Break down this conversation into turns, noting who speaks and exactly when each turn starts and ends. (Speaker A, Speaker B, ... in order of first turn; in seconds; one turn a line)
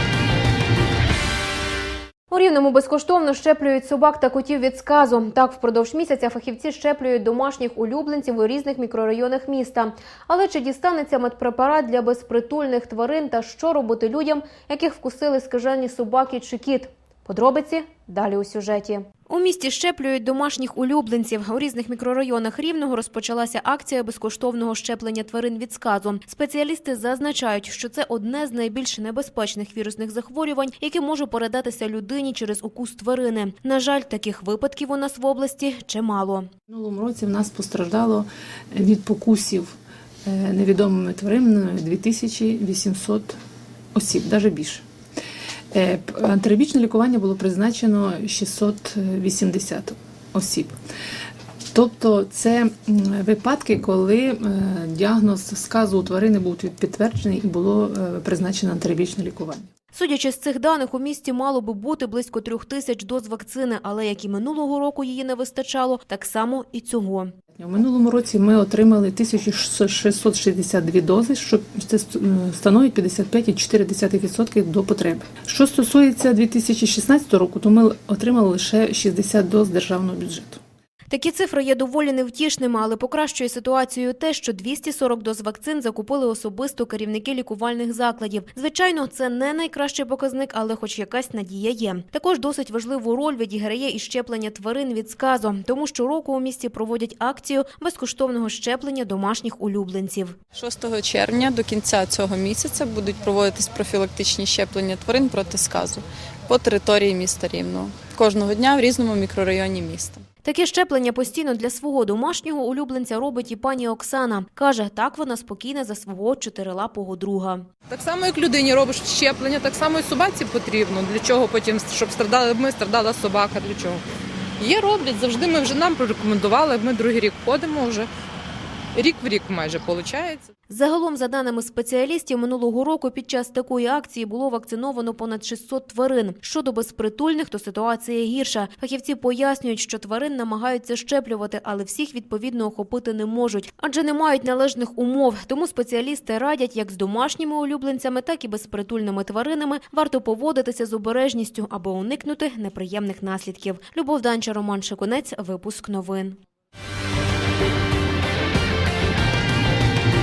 Speaker A: 2.3-36.5
Speaker B: 36.7-43.4
Speaker B: 44.0-44.9
Speaker B: 45.7-50.8
Speaker B: 51.7-59.7
Speaker A: 59.9-67.3
Speaker B: 67.6-80.6
Speaker A: 81.1-100.4
Speaker C: 100.6-110.2
Speaker A: 110.4-117.7
Speaker D: 117.9-124.0
Speaker D: 124.6-128.1
Speaker D: 128.9-130.5
Speaker A: 130.7-156.4